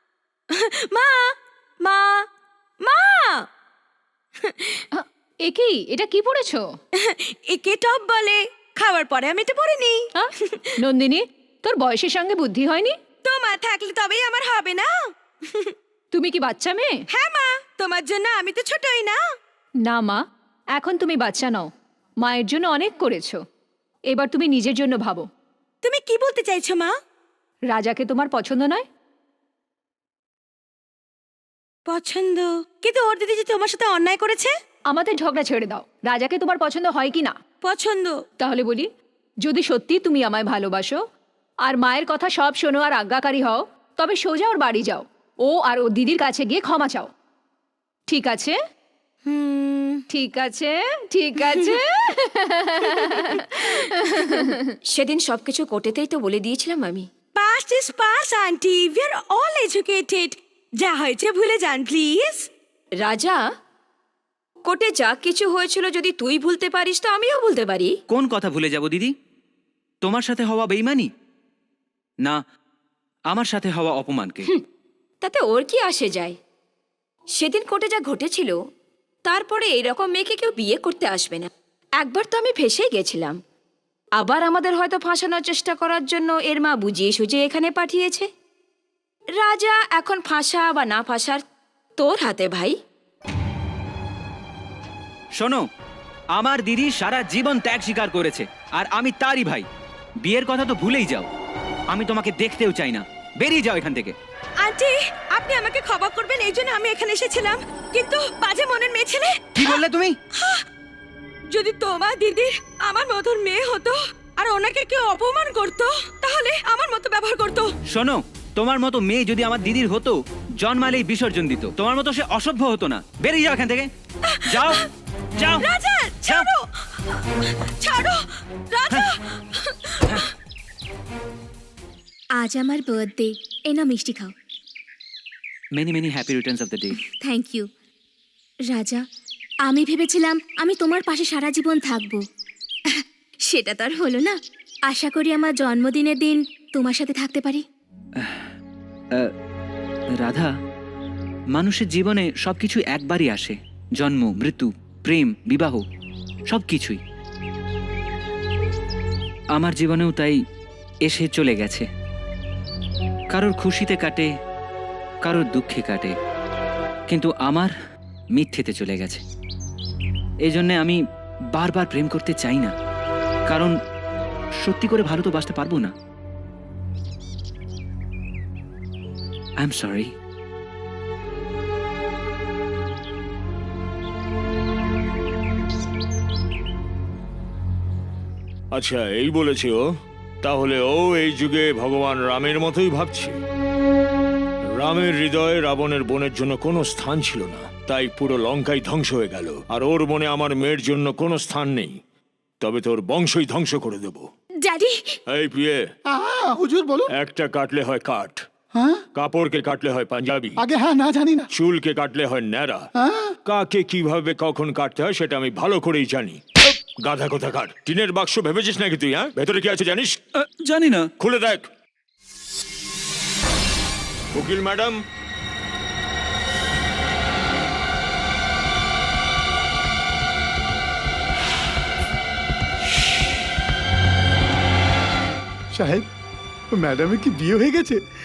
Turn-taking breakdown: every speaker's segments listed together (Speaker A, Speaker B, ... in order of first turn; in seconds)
Speaker A: 0.5-2.2, 2.8-3.5, 4.4-4.8, 6.9-10.8, 13.2-14.9, 15.4-15.7, 17.1-19.2, 25.8-26.9, 31.9-34.5, 37.6-38.2, 49.3-50.0, 53.0-54.5, 57.4-62.5, 104.6-109.8, 110.3-110.6, 111.5-117.7, 124.2-124.8, 125.6-130.3
Speaker B: 4.9-6.7, 10.1-12.9, 16.1-17.0, 19.8-20.2, 20.7-21.7, 22.2-23.4, 24.1-25.3, 27.7-28.8, 34.9-37.4, 38.4-38.9, 39.4-41.0, 41.6-47.1, 48.1-48.6, 50.1-54.6
Speaker C: 54.9-57.1, 63.0-63.4, 64.7-67.9, 75.2-76.4, 77.4-78.5, 79.2-81.5, 82.0-83.4, 84.2-88.3, 89.4-91.4, 92.0-92.8
Speaker D: 68.1-69.1, 70.0-71.1, 73.3-74.5, 95.4-95.6, 96.3-99.7, 100.2-101.3, 101.9-104.1, 109.6-110.2, 117.9-123.9, 124.4-124.8, 125.4-125.7, 126.2-126.5, 135.7-137.0, 148.2-148.5, 150.2-150.5, 151.6-155.8, 156.5-157.0, 159.5-160.4, 161.1-161.9, 163.3-164.3, 165.2-166.1, 167.1-167.7, 168.4-169.2, 170.5-171.0, 171.5-172.7, 173.5-173.7, 174.6-175.9, 179.6-180.1
Speaker E: 132.3-134.3, 137.0-137.7, 138.7-139.1, 139.6-142.2, 142.9-147.6, 204.6-205.2
Speaker F: 188.7-189.8, 190.4-193.4, 194.8-201.9, 202.6-204.3, 205.3-205.8, 207.1-208.4, 209.1-210.6, 211.5-212.8, 213.4-216.4, 217.0-220.2, 221.2-221.7, 224.3-225.0
Speaker G: 206.1-207.1, 208.7-209.0, 210.6-211.5, 212.9-213.3, 235.7-236.0, 236.8-238.0